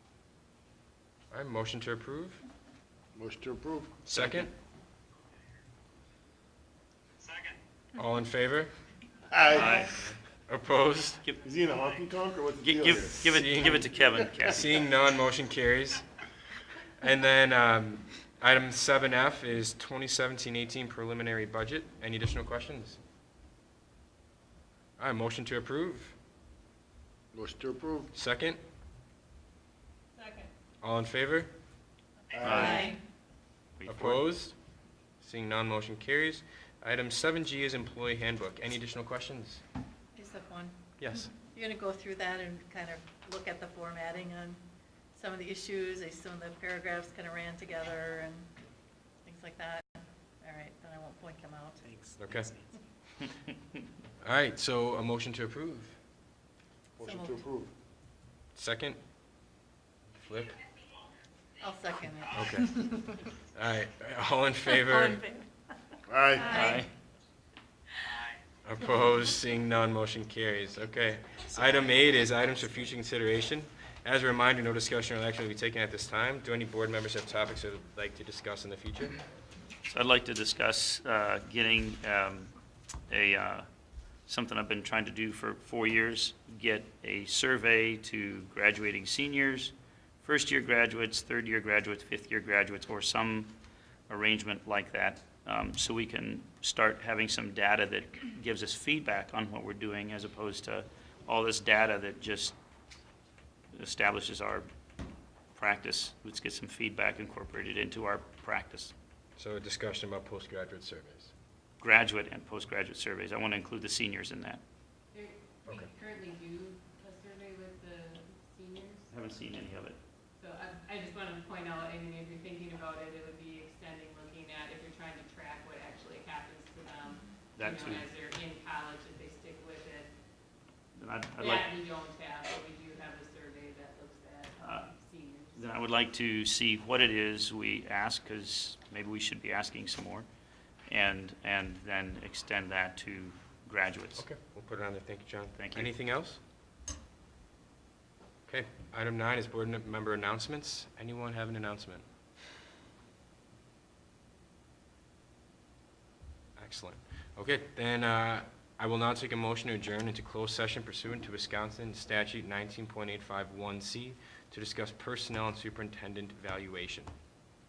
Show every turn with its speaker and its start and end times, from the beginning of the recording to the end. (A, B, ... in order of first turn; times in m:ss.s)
0:01.3-0:02.4 A
0:03.2-0:04.0 B
0:04.1-0:04.5 A
0:04.1-0:04.5 C
0:08.0-0:08.7 A
0:09.3-0:09.9 B
0:09.5-0:10.0 C
0:10.0-0:11.2 A
0:11.4-0:14.2 B
0:12.6-0:14.8 C
0:13.2-0:13.8 A
0:14.4-0:16.0 A
0:17.0-0:23.0 A
0:25.0-0:26.2 A
0:27.3-0:28.1 B
0:28.1-0:28.6 A
0:30.2-0:30.5 D
0:30.8-0:31.5 A
0:32.3-0:32.9 B
0:32.4-0:32.9 C
0:32.4-0:33.0 E
0:33.8-0:34.2 C
0:33.9-0:34.6 A
0:35.2-0:39.6 A
0:40.2-0:40.8 E
0:41.0-0:41.3 A
0:41.4-0:44.6 E
0:45.2-0:48.5 E
0:49.2-0:51.8 E
0:52.2-0:52.5 A
0:54.2-0:56.0 A
0:57.0-0:57.7 B
0:57.0-0:57.4 E
0:58.6-0:59.0 A
1:00.1-1:00.6 A
1:01.6-1:03.2 E
1:02.3-1:02.9 A
1:03.5-1:05.2 A
1:04.9-1:05.4 E
1:06.1-1:06.6 B
1:06.4-1:06.9 E
1:06.4-1:06.9 C
1:08.6-1:19.2 A
1:19.9-1:22.5 C
1:23.1-1:23.7 C
1:24.3-1:33.5 C
1:34.1-1:42.6 C
1:43.7-1:44.7 C
1:45.6-1:48.9 C
1:49.4-1:51.3 A
1:51.8-1:54.6 C
1:55.1-1:59.1 D
1:59.1-2:00.0 C
2:00.4-2:10.1 D
2:07.6-2:08.1 C
2:11.0-2:11.7 C
2:11.4-2:15.8 D
2:14.6-2:14.9 C
2:15.6-2:20.3 C
2:20.9-2:24.3 C
2:24.2-2:26.4 A
2:25.6-2:25.9 C
2:28.5-2:32.0 A
2:36.6-2:47.1 A